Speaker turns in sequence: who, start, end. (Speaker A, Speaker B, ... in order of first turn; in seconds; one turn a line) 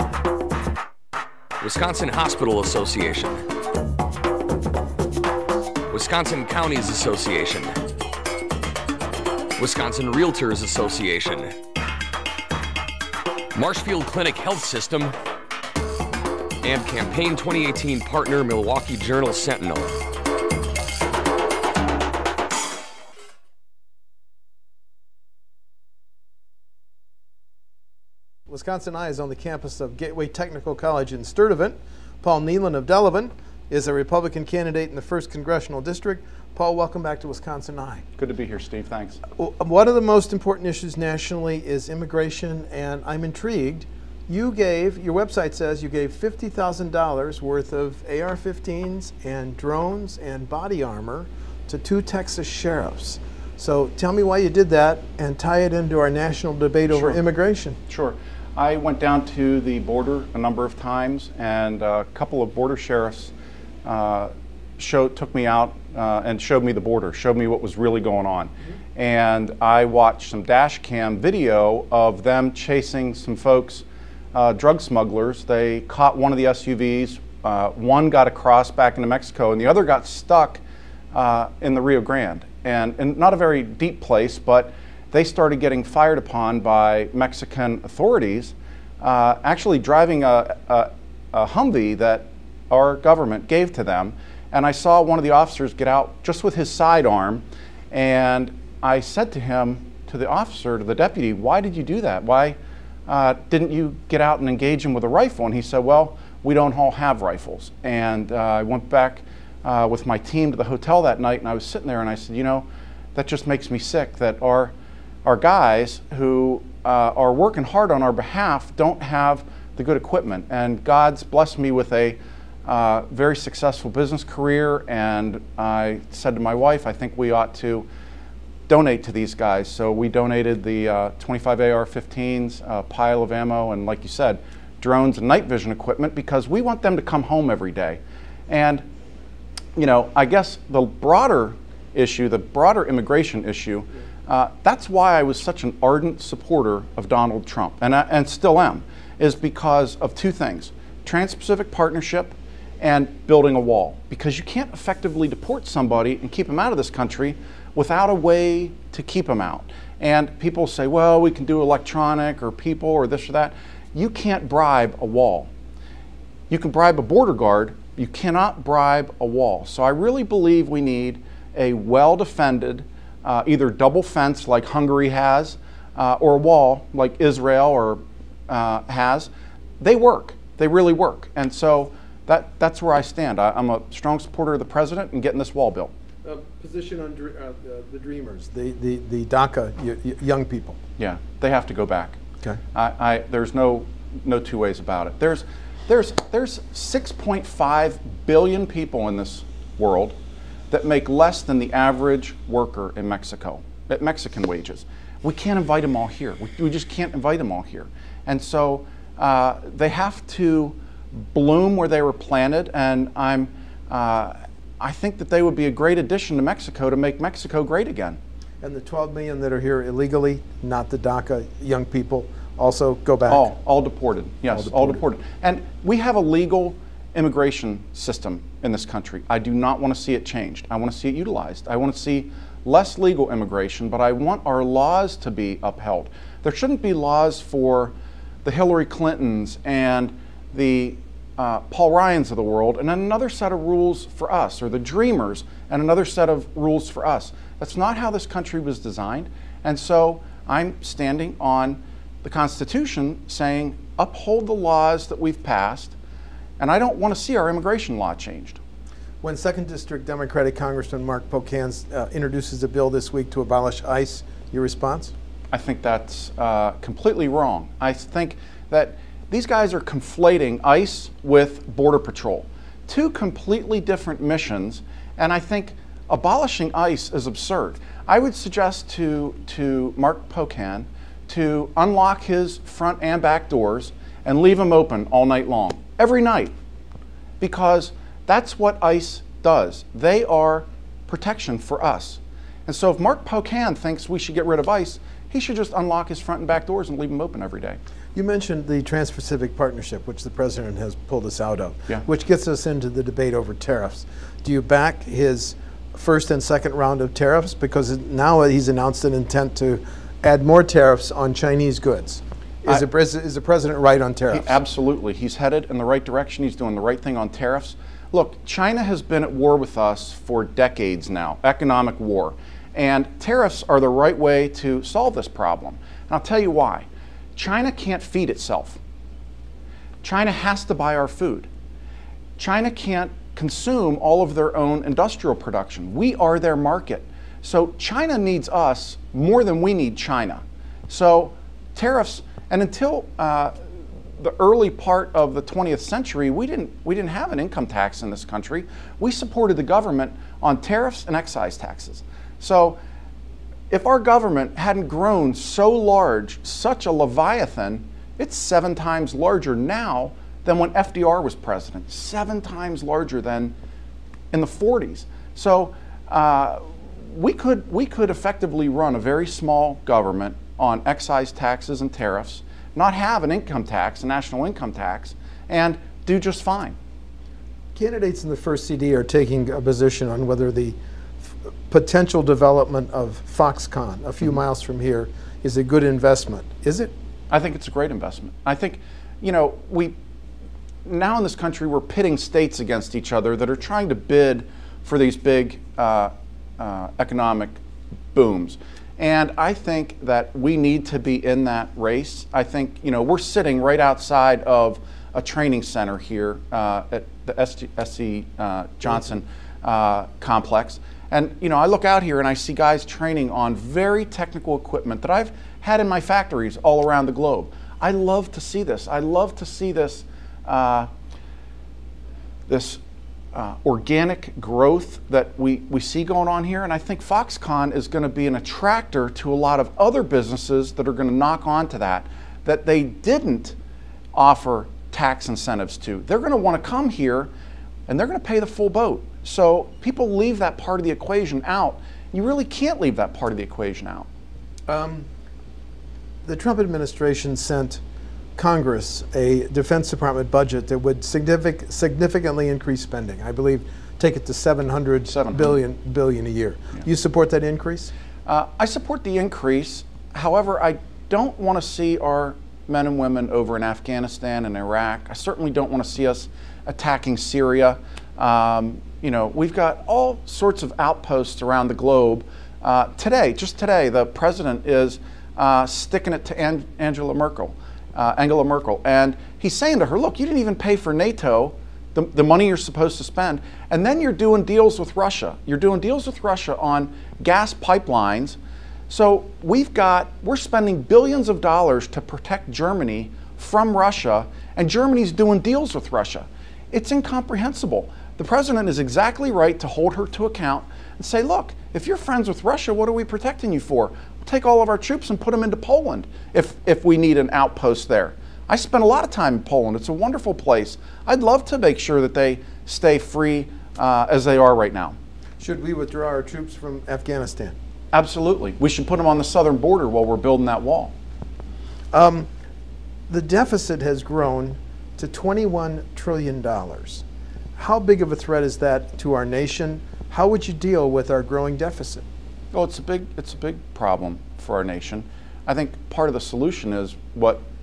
Speaker A: 1.6-3.5
Speaker A: 5.9-7.8
Speaker A: 9.6-11.6
Speaker A: 13.6-15.2
Speaker A: 16.6-19.9
Speaker B: 28.5-38.0
Speaker C: 38.2-39.2
Speaker B: 39.4-57.8
Speaker C: 56.9-57.2
Speaker C: 57.9-63.3
Speaker C: 63.8-80.6
Speaker C: 81.1-127.9
Speaker C: 128.7-138.8
Speaker C: 139.8-165.5
Speaker C: 166.5-185.9
Speaker B: 186.2-190.8
Speaker C: 191.0-192.2
Speaker C: 192.7-200.2
Speaker C: 200.7-218.2
Speaker B: 218.6-223.5
Speaker C: 223.3-255.9
Speaker B: 224.6-225.0
Speaker C: 256.6-258.6
Speaker B: 259.2-265.1
Speaker C: 265.5-286.5
Speaker C: 287.4-297.8
Speaker B: 298.1-314.6
Speaker C: 314.3-328.8
Speaker C: 330.0-331.5
Speaker C: 332.4-343.6
Speaker C: 344.2-352.8
Speaker C: 353.7-363.5
Speaker C: 364.3-376.8
Speaker B: 377.8-380.8
Speaker B: 381.7-386.9
Speaker C: 387.3-389.9
Speaker C: 390.9-397.6
Speaker C: 398.1-420.9
Speaker C: 422.5-422.8
Speaker C: 423.3-433.6
Speaker C: 434.1-437.3
Speaker C: 437.9-444.1
Speaker B: 444.7-445.1
Speaker B: 446.2-447.8
Speaker B: 448.4-457.9
Speaker C: 455.1-455.6
Speaker C: 458.3-488.4
Speaker C: 488.9-515.0
Speaker B: 515.4-517.6
Speaker C: 517.9-520.9
Speaker B: 521.9-522.3
Speaker B: 523.1-527.0
Speaker B: 527.6-532.1
Speaker C: 532.5-537.4